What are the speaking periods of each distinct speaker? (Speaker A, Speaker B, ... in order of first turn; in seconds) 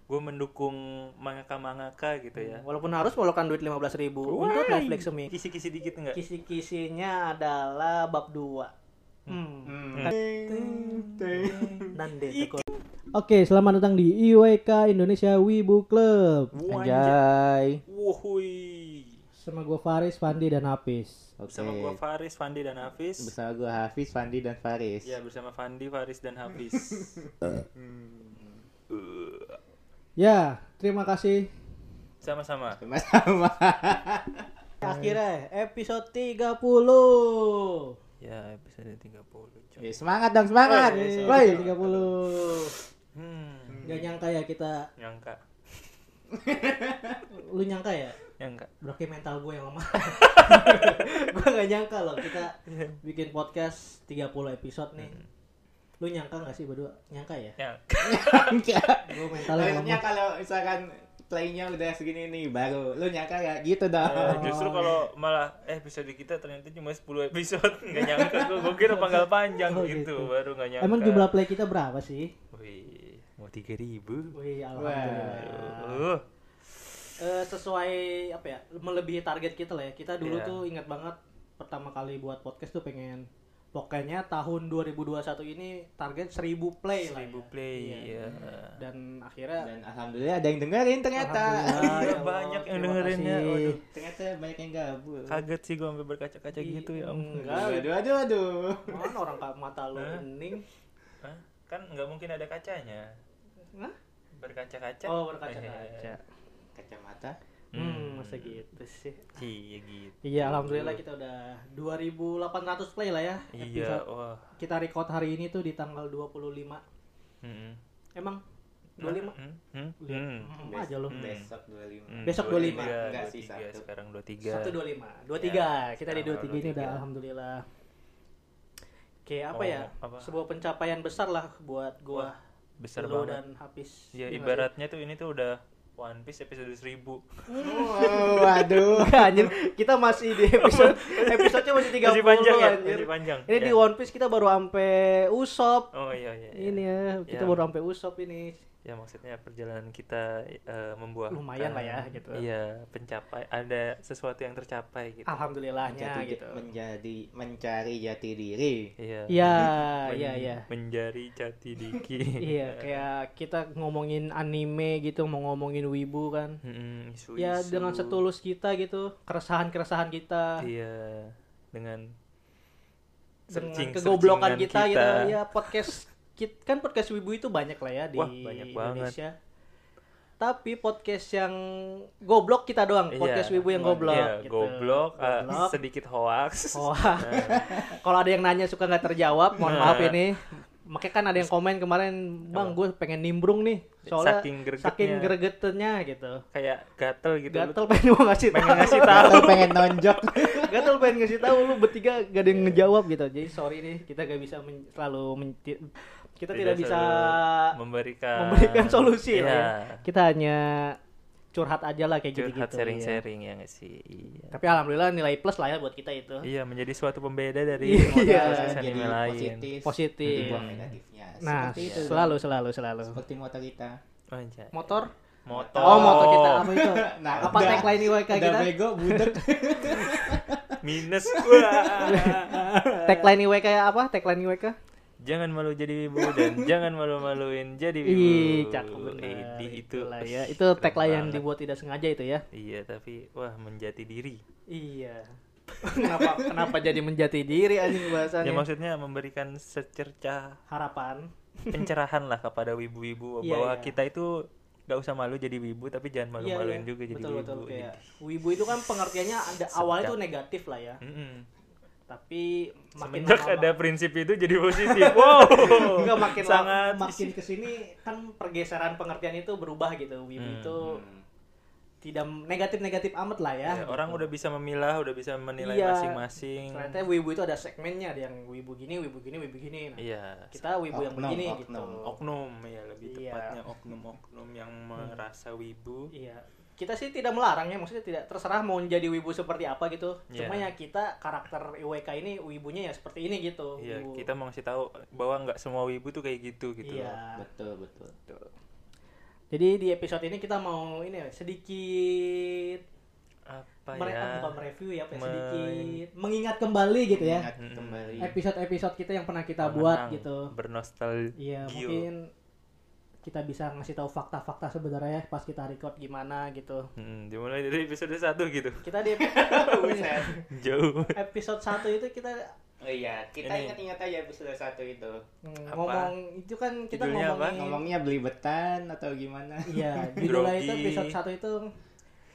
Speaker A: 0.1-2.6, 4.3-6.2, 9.9-12.6, 16.5-17.2, 17.9-19.2, 21.5-23.3, 25.0-27.2, 28.9-29.6, 32.2-32.8, 38.2-39.9, 40.6-42.1, 43.1-43.9, 45.0-45.4, 48.4-48.7, 50.1-51.0, 52.7-53.0, 55.0-55.3, 57.6-59.4, 64.0-71.3, 72.5-74.3, 75.0-76.2, 76.8-77.0, 80.2-80.6, 87.0-88.8, 91.7-93.8, 95.3-97.7, 100.0-100.2, 101.2-103.2, 104.4-106.1, 107.7-108.6, 109.3-111.0, 113.5-114.4, 117.4-117.8, 119.0-120.5, 121.1-121.5, 122.1-124.7, 125.4-127.0, 129.5-130.3, 132.1-133.4, 134.1-138.5, 140.3-143.8, 145.9-147.6, 148.8-155.4, 159.0-163.0, 166.6-168.2, 170.6-172.0, 173.5-175.9, 178.2-179.2, 183.1-187.8, 189.6-190.2, 192.5-192.8, 194.1-195.3, 196.5-197.9, 198.5-200.5, 202.5-202.8, 206.5-210.0, 212.3-214.7, 216.4-219.7, 220.2-220.9, 221.8-222.1, 224.3-226.6, 227.3-227.9, 230.8-233.3, 235.2-241.4, 242.5-244.4, 248.4-250.6, 251.7-258.1, 259.7-260.2, 261.0-261.5, 263.0-267.3, 270.4-270.8, 273.6-277.0, 280.0-280.6, 282.0-286.1, 290.3-290.7, 293.8-297.2, 303.5-304.6, 305.1-306.0, 307.5-308.3, 309.6-312.1, 316.9-318.9, 320.5-321.2, 323.4-323.8, 325.7-326.1, 326.9-327.6, 330.2-331.1
Speaker B: 2.4-5.3, 6.1-8.7, 9.3-10.2, 11.9-16.5, 19.4-21.3, 30.2-31.5, 34.8-38.0, 40.7-42.8, 43.8-44.9, 47.3-48.2, 48.8-55.1, 56.0-57.5, 59.0-60.0, 64.0-64.7, 68.8-72.3, 74.3-76.0, 77.2-88.1, 88.8-89.7, 91.2-93.8, 96.6-97.9, 98.9-100.6, 105.0-106.2, 107.8-109.3, 110.2-114.0, 114.6-116.8, 118.2-118.4, 119.0-119.3, 120.0-121.2, 122.2-123.0, 124.5-127.6, 129.2-132.4, 133.0-134.7, 137.5-145.9, 146.5-148.5, 151.3-152.4, 155.3-156.6, 159.3-160.6, 162.4-166.6, 167.4-170.6, 173.5-179.3, 180.4-185.8, 186.7-196.4, 197.5-199.5, 200.6-207.7, 208.4-211.0, 211.5-213.2, 214.5-216.4, 217.8-218.8, 219.8-220.7, 221.4-223.2, 224.7-225.1, 225.8-230.4, 232.1-234.8, 238.0-242.4, 244.7-245.3, 245.8-248.6, 250.7-251.9, 253.4-253.9, 256.4-261.0, 262.1-263.7, 264.7-271.0, 272.0-274.3, 275.6-276.2, 276.7-280.0, 280.5-282.0, 283.1-283.6, 285.0-285.2, 286.1-294.2, 296.8-297.4, 299.5-302.8, 303.9-307.5, 308.2-310.5, 311.4-312.3, 313.2-316.9, 318.8-320.4, 321.1-322.5, 325.4-327.8, 329.6-331.7
Speaker C: 9.7-11.9, 16.7-17.8, 21.4-22.0, 23.2-25.1, 26.7-28.6, 32.8-35.2, 39.8-41.7, 43.7-44.1, 46.3-47.3, 58.0-64.9, 68.0-68.5, 74.8-75.5, 89.6-92.2, 93.9-95.4, 97.5-99.2, 106.8-107.4, 120.6-123.8, 137.6-139.5, 155.8-158.9, 183.7-184.2, 187.3-188.0, 198.9-200.9, 217.9-222.4, 223.0-223.9, 225.5-230.8, 231.3-232.3, 246.2-246.7, 270.8-271.2, 280.9-282.0, 297.4-298.1, 307.1-308.4, 319.1-320.3, 322.8-325.2, 327.5-330.3